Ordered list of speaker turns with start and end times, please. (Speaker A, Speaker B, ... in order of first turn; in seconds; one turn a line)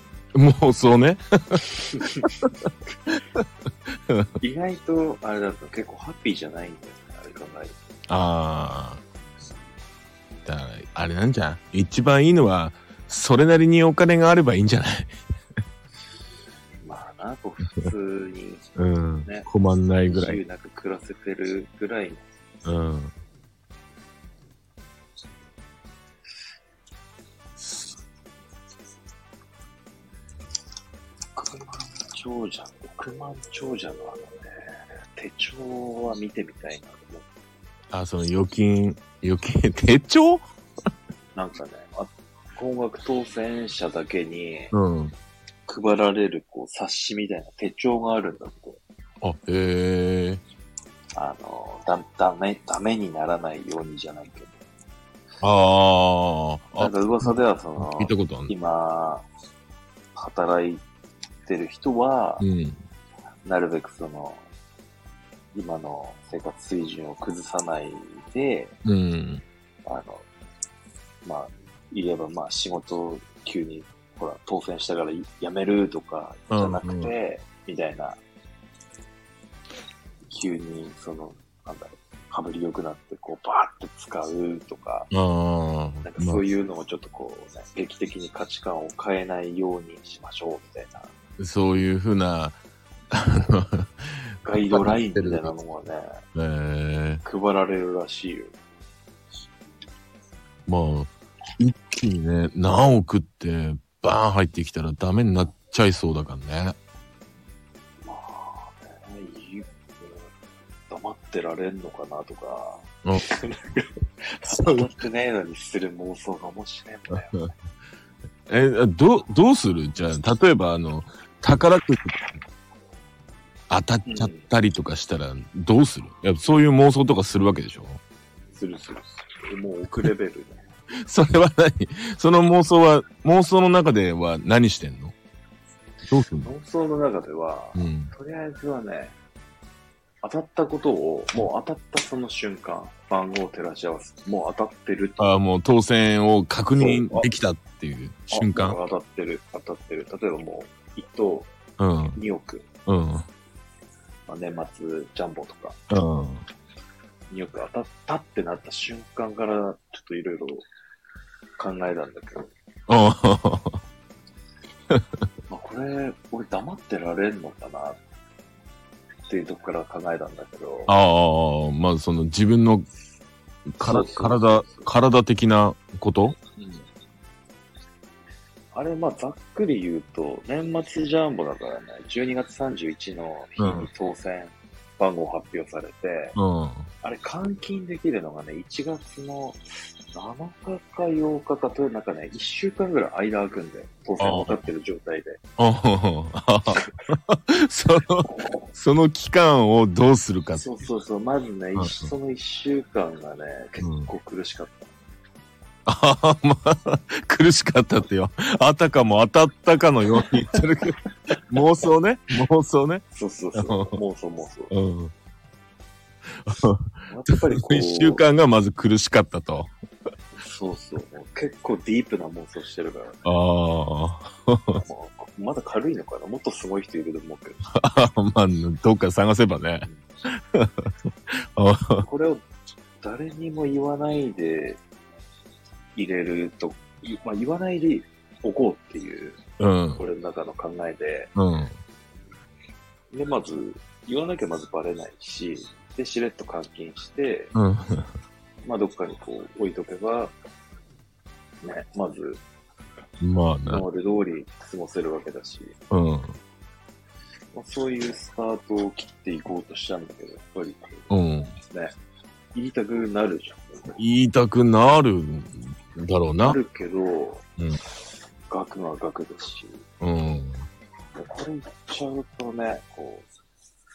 Speaker A: 0.3-3.5
Speaker B: 1.9-2.3
Speaker B: 4.4-7.7
Speaker A: 8.1-9.0
Speaker A: 10.4-15.1
Speaker B: 16.8-18.6
Speaker A: 18.8-20.4
Speaker B: 20.1-22.2
Speaker A: 22.6-23.1
Speaker A: 27.6-27.9
Speaker B: 31.3-34.4
Speaker B: 35.1-37.2
Speaker A: 37.9-40.4
Speaker B: 41.3-44.7
Speaker A: 44.7-45.1
Speaker B: 45.7-48.8
Speaker A: 49.2-50.4
Speaker B: 51.1-54.6
Speaker A: 55.4-58.5
Speaker B: 56.8-59.2
Speaker B: 60.1-60.8
Speaker B: 61.5-62.5
Speaker A: 62.4-62.8
Speaker B: 63.4-64.4
Speaker B: 65.5-68.8
Speaker A: 68.8-69.4
Speaker B: 69.8-70.2
Speaker B: 71.2-78.2
Speaker A: 76.5-77.1
Speaker B: 80.3-85.1
Speaker A: 85.1-86.4
Speaker B: 86.0-91.1
Speaker A: 91.4-92.6
Speaker A: 93.1-95.5
Speaker B: 94.4-96.1
Speaker A: 96.3-97.2
Speaker B: 97.2-98.5
Speaker A: 100.7-106.8
Speaker B: 108.0-110.3
Speaker B: 110.9-117.4
Speaker A: 114.5-114.8
Speaker A: 117.1-117.5
Speaker A: 118.5-122.2
Speaker A: 123.7-128.0
Speaker B: 124.0-124.5
Speaker B: 128.5-130.6
Speaker A: 131.1-135.1
Speaker A: 136.1-136.5
Speaker B: 136.4-139.1
Speaker A: 137.7-138.1
Speaker B: 140.2-145.4
Speaker A: 145.2-148.8
Speaker B: 146.8-147.3
Speaker B: 148.3-151.5
Speaker A: 151.8-152.2
Speaker B: 152.2-152.7
Speaker A: 152.9-153.2
Speaker B: 154.3-155.8
Speaker A: 155.9-156.4
Speaker B: 157.3-160.6
Speaker B: 161.6-162.5
Speaker A: 162.9-163.8
Speaker B: 165.5-168.0
Speaker B: 169.3-171.0
Speaker A: 170.9-172.9
Speaker A: 173.8-176.4
Speaker B: 173.8-174.9
Speaker B: 176.6-176.9
Speaker B: 178.7-186.4
Speaker A: 183.6-183.9
Speaker A: 186.3-186.9
Speaker B: 187.0-189.6
Speaker B: 190.1-195.4
Speaker A: 194.2-194.6
Speaker A: 195.6-200.7
Speaker B: 200.5-204.9
Speaker A: 201.8-202.1
Speaker A: 203.8-204.1
Speaker A: 205.8-210.9
Speaker A: 211.5-213.0
Speaker B: 213.1-214.7
Speaker A: 213.5-214.0
Speaker A: 214.7-215.1
Speaker A: 216.4-219.7
Speaker B: 217.1-218.2
Speaker B: 220.3-223.2
Speaker A: 223.2-224.8
Speaker B: 224.7-227.6
Speaker A: 227.8-229.9
Speaker A: 230.5-230.9
Speaker A: 231.6-232.1
Speaker B: 232.0-232.4
Speaker B: 233.0-234.8
Speaker B: 235.9-239.4
Speaker A: 239.6-240.0
Speaker B: 240.0-241.3
Speaker A: 241.3-241.8
Speaker B: 243.1-247.5
Speaker A: 247.5-248.1
Speaker B: 248.6-250.3
Speaker B: 251.6-252.4
Speaker A: 253.2-253.8
Speaker B: 253.7-255.7
Speaker A: 255.9-256.3
Speaker B: 257.5-261.1
Speaker A: 261.1-261.5
Speaker B: 261.6-261.9
Speaker B: 262.5-264.0
Speaker A: 264.0-266.6
Speaker B: 266.4-267.4
Speaker B: 268.5-269.8
Speaker A: 270.0-270.6
Speaker B: 271.1-273.3